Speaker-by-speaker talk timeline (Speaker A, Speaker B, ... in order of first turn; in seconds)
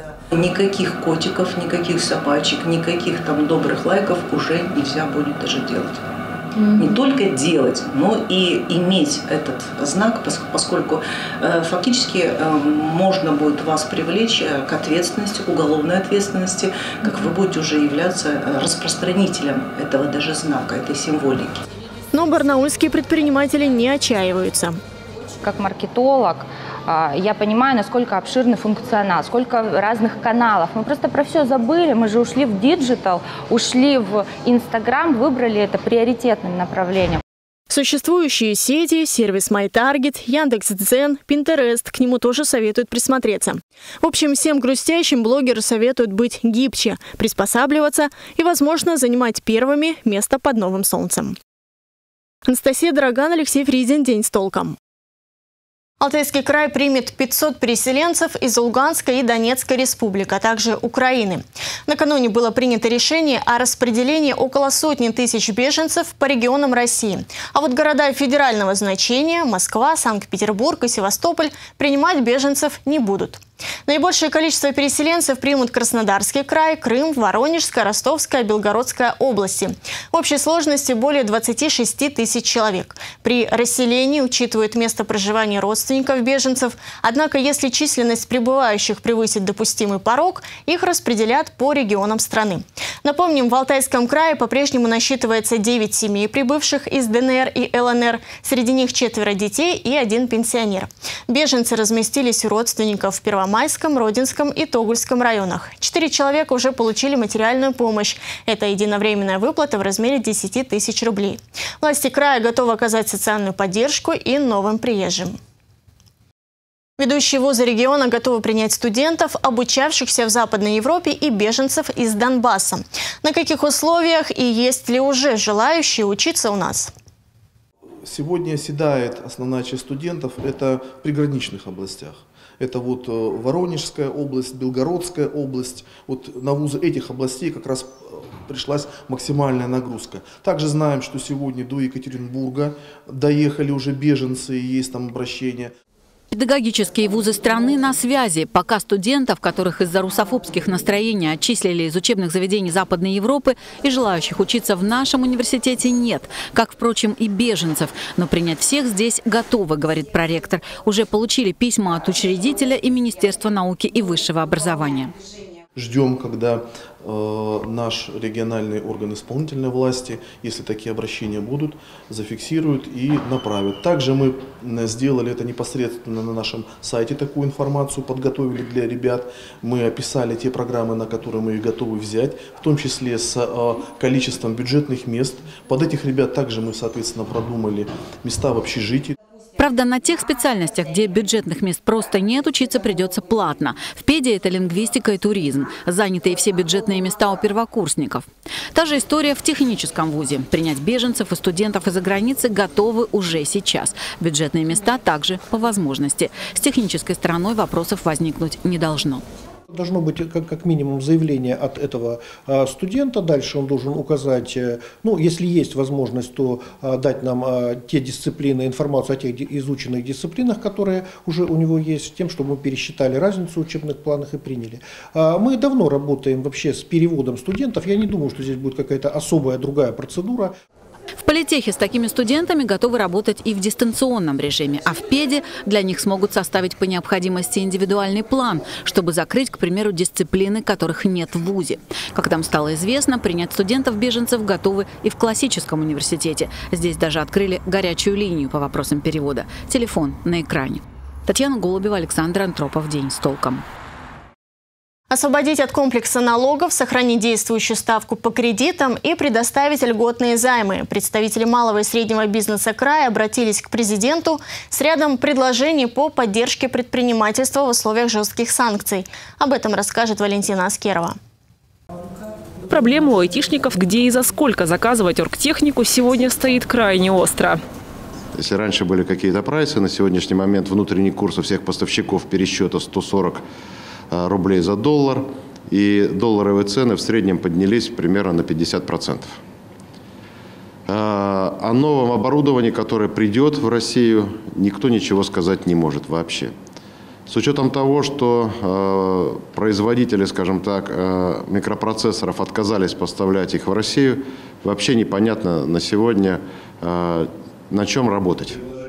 Speaker A: 0.3-6.0, 6.7-21.6
Speaker B: 22.1-24.8, 37.7-51.4, 52.5-54.8, 56.0-115.4, 117.0-126.9, 255.1-271.2
Speaker C: 25.4-37.2
Speaker D: 128.1-145.7, 165.8-189.2
Speaker E: 146.3-165.1, 189.6-209.2, 231.2-253.6
Speaker F: 209.7-230.5
Speaker G: 272.7-277.6
Speaker H: 278.4-283.4, 284.1-289.3, 290.9-296.5, 297.3-308.6